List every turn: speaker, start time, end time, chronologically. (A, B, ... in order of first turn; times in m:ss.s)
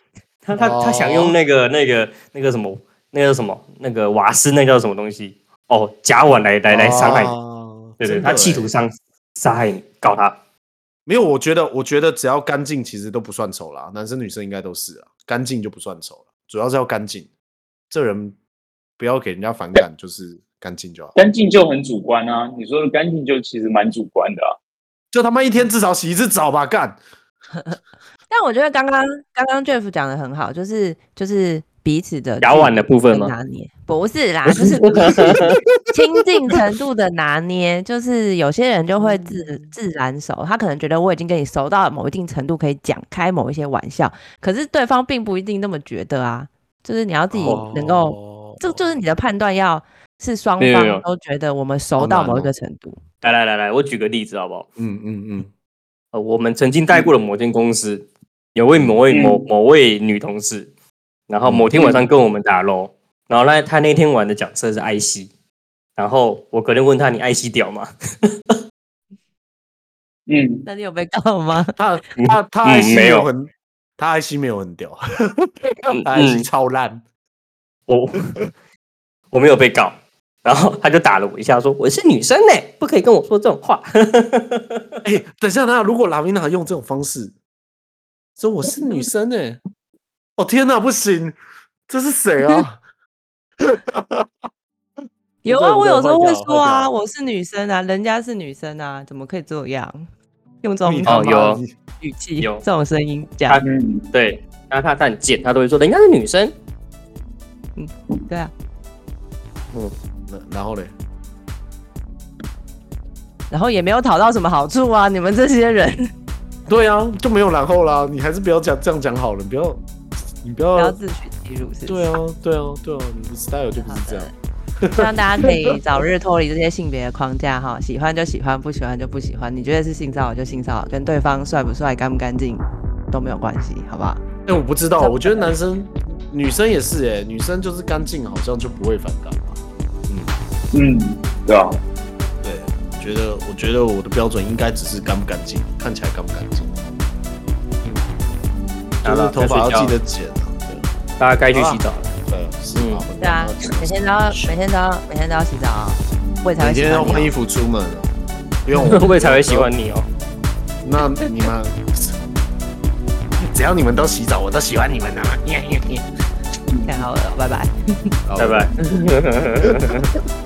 0:00.4-0:07.3 A
0:00.5-0:01.4 B
0:06.7-0:08.7 B
0:08.0-0:10.4 A
0:11.0-0:17.3 B
0:17.9-0:18.4 B
0:19.0-0:21.1 B
0:21.1-0:24.5 C
0:25.1-0:27.0 B
0:28.3-0:53.2 D
0:32.4-0:33.3 A
0:34.6-0:35.5 A
0:39.0-0:39.7 B
0:47.3-0:48.8 B
0:50.6-0:51.0 A
0:52.0-0:52.5 B
0:53.2-0:54.7 A
0:54.8-0:55.5 B
0:56.1-1:00.7 A
0:59.1-0:59.5 C
1:01.3-1:05.3 A
1:01.4-1:02.0 B
1:06.0-1:08.3 A
1:10.3-1:10.6 C
1:10.6-1:11.8 D
1:11.8-1:17.0 B
1:12.2-1:13.2 A
1:15.9-1:16.4 A
1:17.9-1:18.4 A
1:19.3-1:24.8 A
1:25.0-1:27.3 B
1:28.4-1:29.6 B
1:30.4-1:31.4 B
1:31.9-1:32.8 B
1:33.6-1:34.3 B
1:35.4-1:40.1 D
1:35.4-1:36.9 B
1:40.6-1:43.6 D
1:40.8-1:41.7 B
1:41.0-1:41.6 A
1:43.5-1:46.5 A
1:43.6-1:44.1 C
1:47.8-1:48.5 D
1:49.7-1:50.9 B
1:53.5-1:56.1 D
1:56.7-1:59.8 B
2:00.4-2:01.0 B
2:00.7-2:02.2 D
2:01.9-2:05.4 B
2:03.8-2:04.3 D
2:04.9-2:14.2 D
2:14.4-2:20.3 B
2:15.0-2:15.5 D
2:20.7-2:21.8 C
2:22.4-2:26.8 B
2:29.0-2:29.9 A
2:29.0-2:30.9 B
2:31.2-2:32.1 A
2:31.5-2:34.6 B
2:32.7-2:33.0 A
2:33.2-2:37.3 D
2:36.6-2:38.1 B
2:38.6-2:39.7 B
2:38.9-2:40.0 A
2:40.8-2:42.2 B
2:43.4-2:46.0 B
2:46.8-2:47.7 D
2:48.3-2:48.7 B
2:48.4-2:50.1 A
2:49.6-2:50.0 B